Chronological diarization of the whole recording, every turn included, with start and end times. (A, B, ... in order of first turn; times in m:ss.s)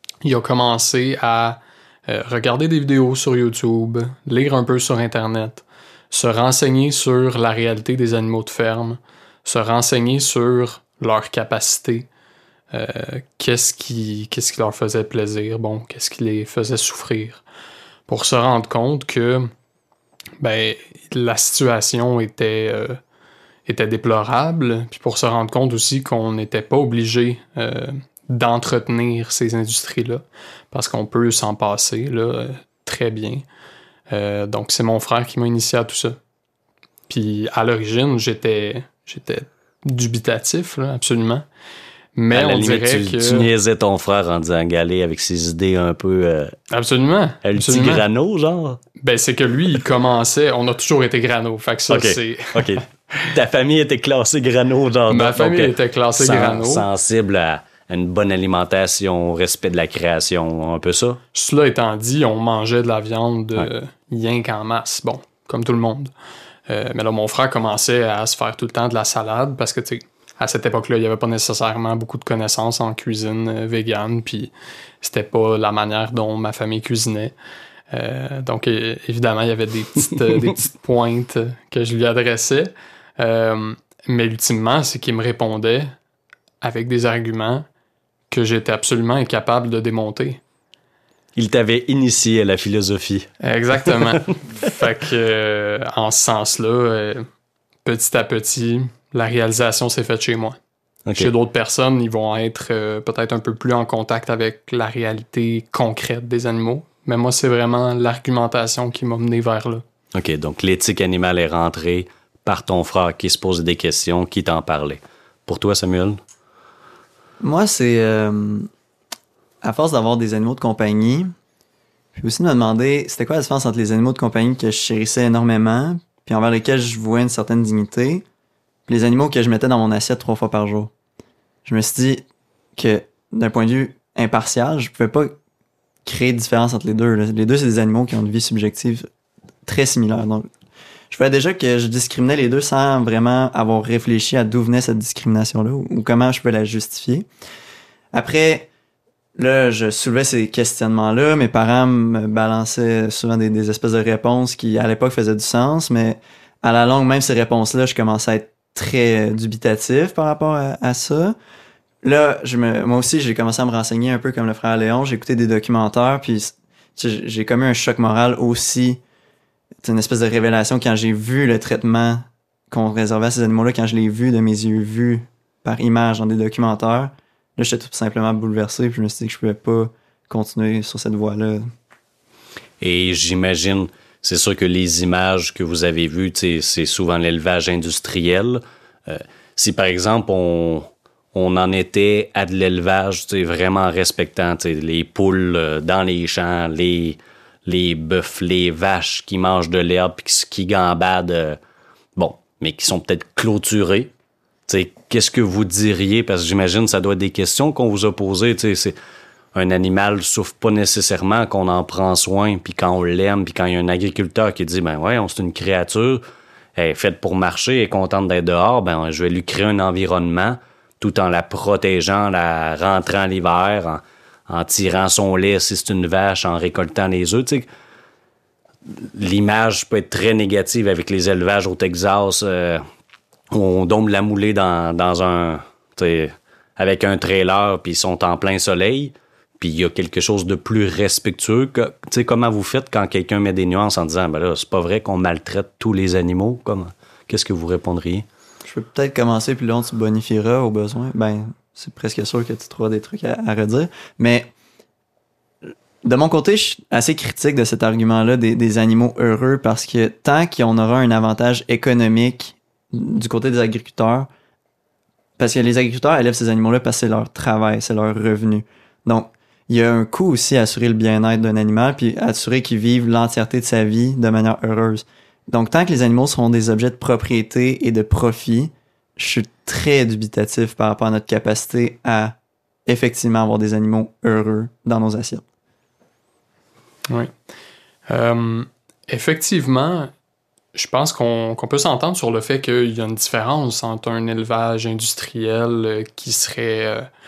0:00.2-0:12.1 A
0:12.7-0:17.4 A
0:18.1-0:19.5 A
0:20.4-0:23.0 A
0:23.6-0:33.4 A
0:34.1-0:36.2 A
0:37.1-0:41.4 A
0:42.2-0:43.5 A
0:42.3-0:46.6 B
0:46.7-0:48.0 A
0:47.4-0:48.8 B
0:49.0-0:52.8 A
0:51.9-1:01.2 B
0:55.1-0:56.9 A
1:01.3-1:06.1 A
1:06.7-1:17.3 A
1:17.9-1:25.9 A
1:26.6-1:27.6 A
1:28.3-1:30.4 A
1:31.4-1:33.3 B
1:33.4-1:37.2 A
1:37.8-1:40.6 A
1:41.0-1:41.3 B
1:41.1-1:49.8 A
1:50.1-1:56.2 B
1:57.4-1:58.7 C
1:59.6-2:01.3 C
2:02.1-2:08.2 C
2:08.9-2:10.9 C
2:11.6-2:15.4 C
2:16.0-2:19.1 C
2:19.6-2:20.5 C
2:21.1-2:27.3 C
2:28.1-2:28.7 C
2:29.4-2:41.3 C
2:42.0-2:49.0 C
2:49.8-3:01.6 C
3:02.8-3:21.6 B
3:22.2-3:24.1 B
3:24.7-3:29.0 B
3:29.5-3:36.2 B
3:36.8-3:47.7 B
3:48.8-3:52.8 B
3:53.5-4:08.2 B
4:08.6-4:14.5 C
4:15.7-4:24.3 C
4:25.4-4:45.4 C
4:48.1-4:50.1 A
4:50.7-4:57.1 A